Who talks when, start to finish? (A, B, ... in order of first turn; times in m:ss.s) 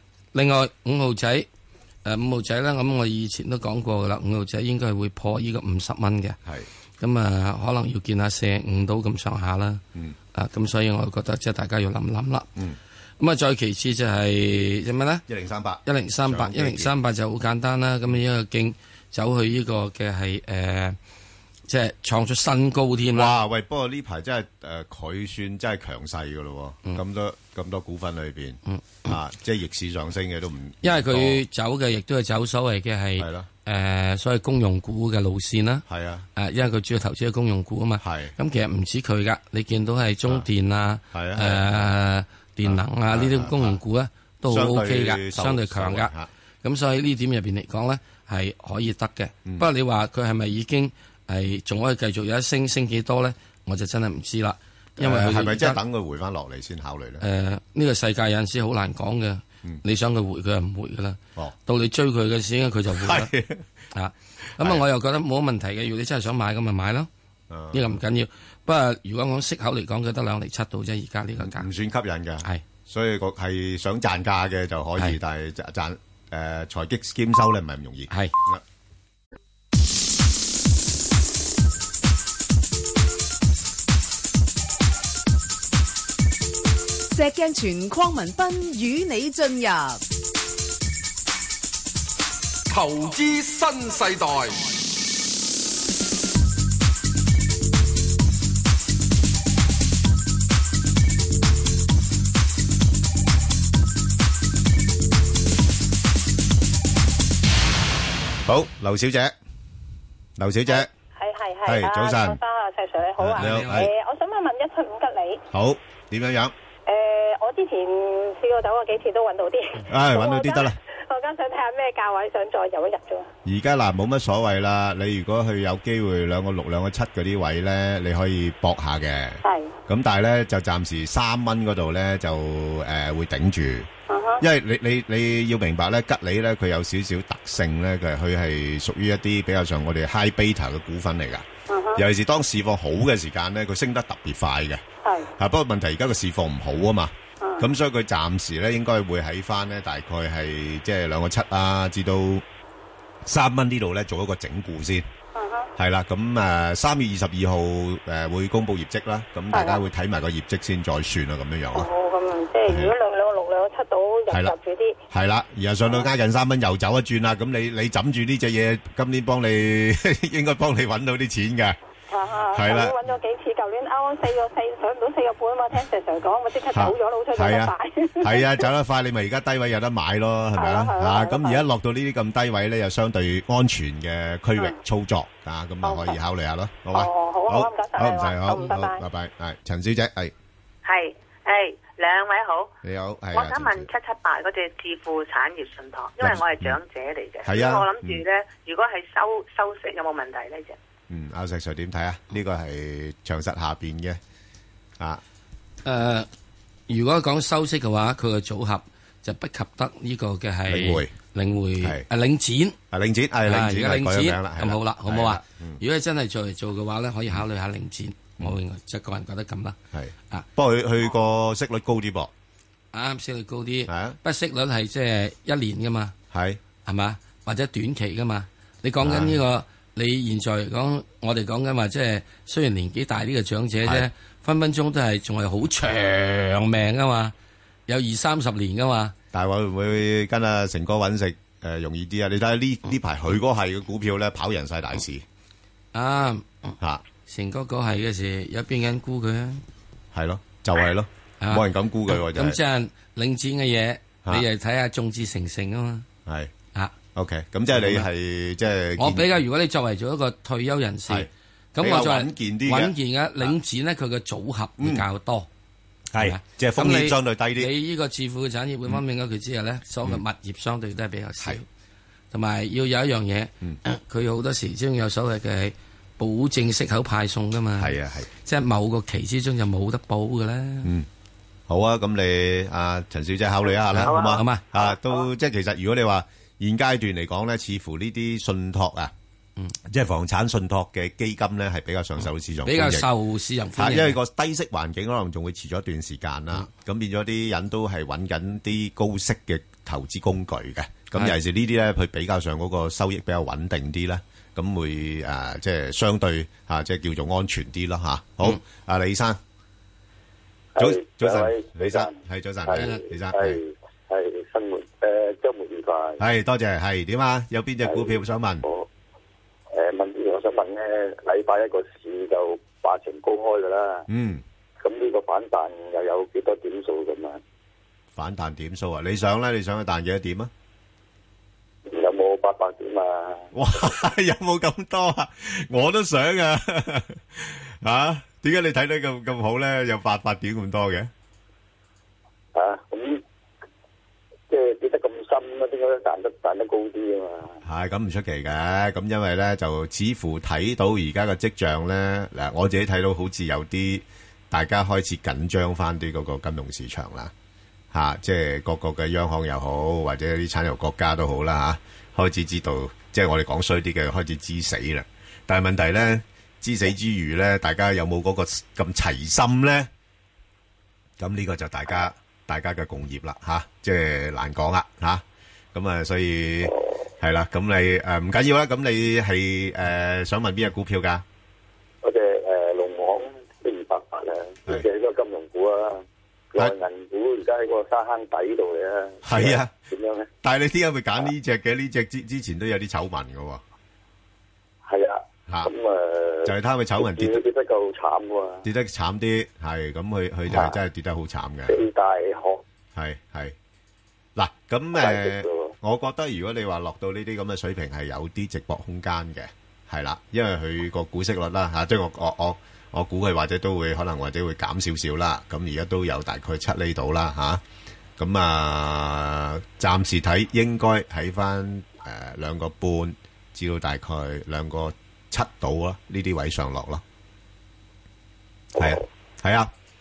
0:00.3-0:01.5 A
0:02.0-0:06.4 A
0:07.0-0:09.8 A
0:10.3-0:12.5 A
0:13.2-0:15.2 A
0:15.3-0:16.9 B
0:15.8-0:21.0 A
0:21.7-0:23.4 A
0:23.1-0:31.4 B
0:28.7-0:29.1 A
0:30.8-0:46.1 A
0:33.2-0:33.5 B
0:35.9-0:36.2 B
0:38.0-0:38.3 B
0:41.1-0:41.9 B
0:42.6-0:43.8 B
0:44.5-0:46.3 B
0:46.6-0:55.8 A
0:55.0-0:57.2 B
0:57.2-1:03.3 A
1:02.9-1:03.6 B
1:03.9-1:07.1 A
1:04.6-1:04.8 B
1:07.5-1:07.8 B
1:07.7-1:11.7 A
1:11.4-1:18.6 B
1:27.1-1:30.0 C
1:32.7-1:34.6 D
1:48.4-1:49.3 B
1:50.4-1:50.9 B
1:50.7-1:55.4 E
1:51.6-1:52.4 B
1:53.2-1:53.9 B
1:53.4-1:53.8 A
1:55.5-1:56.5 B
1:56.8-2:03.3 E
1:59.8-2:00.8 B
2:03.4-2:13.9 B
2:09.4-2:09.7 E
2:14.1-2:14.4 E
2:14.4-2:24.8 B
2:25.4-2:32.4 B
2:33.2-2:35.0 B
2:35.4-2:35.6 E
2:35.8-2:41.9 B
2:39.5-2:39.8 E
2:41.7-2:45.0 E
2:42.7-2:42.9 B
2:44.3-2:44.5 B
2:45.1-2:51.8 B
2:52.1-2:58.6 E
2:52.5-2:53.0 B
2:56.7-3:10.3 B
3:00.6-3:01.6 E
3:05.8-3:06.2 E
3:06.9-3:09.0 E
3:10.8-3:12.7 F
3:12.8-3:13.9 B
3:13.3-3:20.7 F
3:16.2-3:16.8 B
3:17.4-3:18.2 B
3:21.1-3:24.2 B
3:25.8-3:26.3 A
3:26.9-3:32.8 A
3:30.7-3:31.1 B
3:32.9-3:35.8 B
3:33.5-3:39.8 A
3:39.9-3:42.3 B
3:42.9-3:46.1 A
3:43.9-3:44.2 B
3:46.3-3:46.6 B
3:46.8-3:57.3 A
3:49.0-3:49.4 B
3:57.9-3:59.1 A
3:59.3-4:05.2 B
4:05.9-4:06.7 A
4:07.3-4:09.6 A
4:10.1-4:12.6 B
4:11.4-4:16.0 A
4:16.2-4:16.5 B
4:17.1-4:19.3 B
4:17.7-4:18.1 A
4:19.0-4:25.5 A
4:21.1-4:23.5 B
4:24.8-4:25.0 B
4:26.1-4:27.7 B
4:26.2-4:31.6 A
4:32.3-4:40.9 A
4:37.8-4:38.3 B
4:41.7-4:49.1 B
4:43.9-4:44.6 A
4:49.8-4:53.1 B
4:52.6-4:54.2 A
4:53.8-5:09.4 B
5:10.8-5:12.1 G
5:10.8-5:13.6 B
5:12.6-5:16.2 G
5:16.2-5:18.6 B
5:17.8-5:18.9 G
5:19.7-5:24.0 G
5:24.1-5:24.4 B
5:24.8-5:27.4 G
5:28.1-5:30.5 B
5:31.9-5:33.5 G
5:33.5-5:41.1 B
5:42.5-5:43.2 G
5:44.5-5:47.6 G
5:47.6-5:57.3 B
5:57.9-6:09.9 B
6:11.2-6:21.2 B
6:22.0-6:30.3 G
6:29.2-6:29.7 B
6:30.4-6:33.6 B
6:34.8-6:38.6 G
6:36.4-6:37.4 B
6:38.6-6:41.8 B
6:40.5-6:40.8 G
6:41.7-6:42.6 G
6:42.9-6:43.5 B
6:44.4-6:57.6 B
6:45.0-6:45.7 G
6:58.2-7:07.0 B
7:08.8-7:09.7 B